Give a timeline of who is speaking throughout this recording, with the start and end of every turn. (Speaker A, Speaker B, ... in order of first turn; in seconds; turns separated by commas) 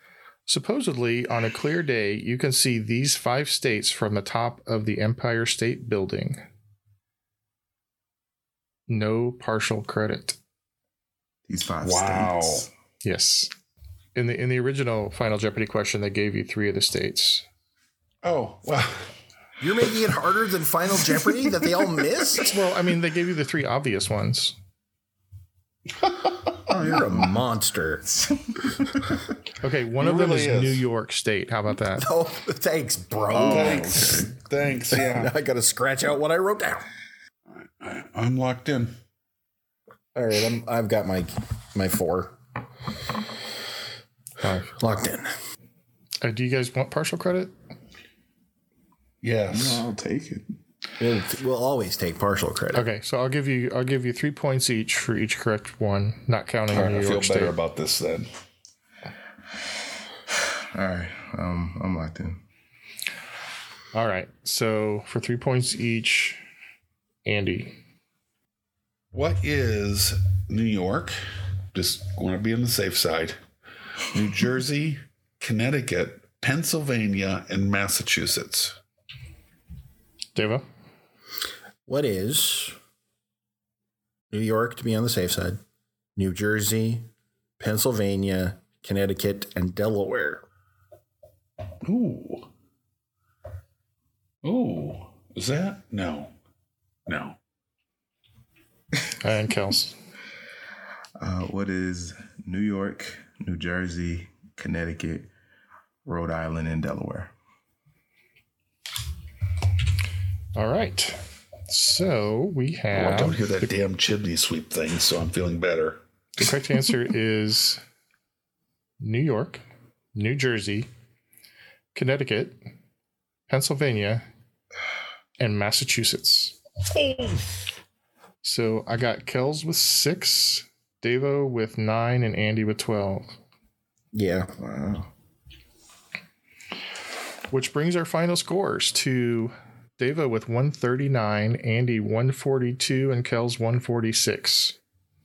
Speaker A: 0.5-6.4, Speaker A: 8.9-10.4, Speaker B: 11.5-12.7, Speaker C: 11.8-12.7, Speaker A: 13.0-13.5, Speaker A: 14.1-17.4, Speaker C: 18.2-19.1, Speaker D: 19.6-22.5, Speaker A: 22.4-24.5, Speaker B: 26.7-27.4, Speaker D: 26.8-28.0, Speaker B: 28.1-29.1, Speaker A: 29.6-32.1, Speaker C: 30.0-30.8, Speaker D: 31.9-34.2, Speaker B: 33.3-34.4, Speaker C: 33.4-35.3, Speaker D: 34.9-36.8, Speaker C: 37.5-38.9, Speaker D: 40.1-42.4, Speaker A: 44.4-44.7, Speaker D: 44.8-45.3, Speaker A: 46.2-47.5, Speaker C: 49.2-49.9, Speaker B: 49.5-50.5, Speaker D: 51.0-52.9, Speaker A: 52.7-57.5, Speaker C: 56.7-58.3, Speaker B: 60.7-62.4, Speaker A: 63.9-66.4, Speaker A: 67.2-67.8, Speaker C: 69.1-71.2, Speaker C: 71.7-73.4, Speaker C: 74.1-78.8, Speaker A: 80.3-80.6, Speaker D: 81.8-82.7, Speaker D: 84.3-85.6, Speaker D: 86.2-87.1, Speaker D: 87.6-90.4, Speaker C: 91.8-92.5, Speaker C: 94.4-96.3, Speaker C: 97.1-97.4, Speaker A: 99.2-99.9, Speaker B: 101.2-105.3, Speaker B: 106.0-107.3, Speaker A: 110.5-113.7, Speaker C: 112.9-116.0, Speaker A: 116.4-117.8, Speaker A: 119.0-119.6, Speaker A: 120.1-120.9, Speaker A: 121.9-122.6, Speaker A: 123.5-124.2, Speaker A: 125.4-126.6, Speaker C: 127.0-127.6, Speaker A: 128.4-133.3, Speaker D: 134.1-134.5, Speaker B: 134.6-135.1, Speaker A: 137.5-144.8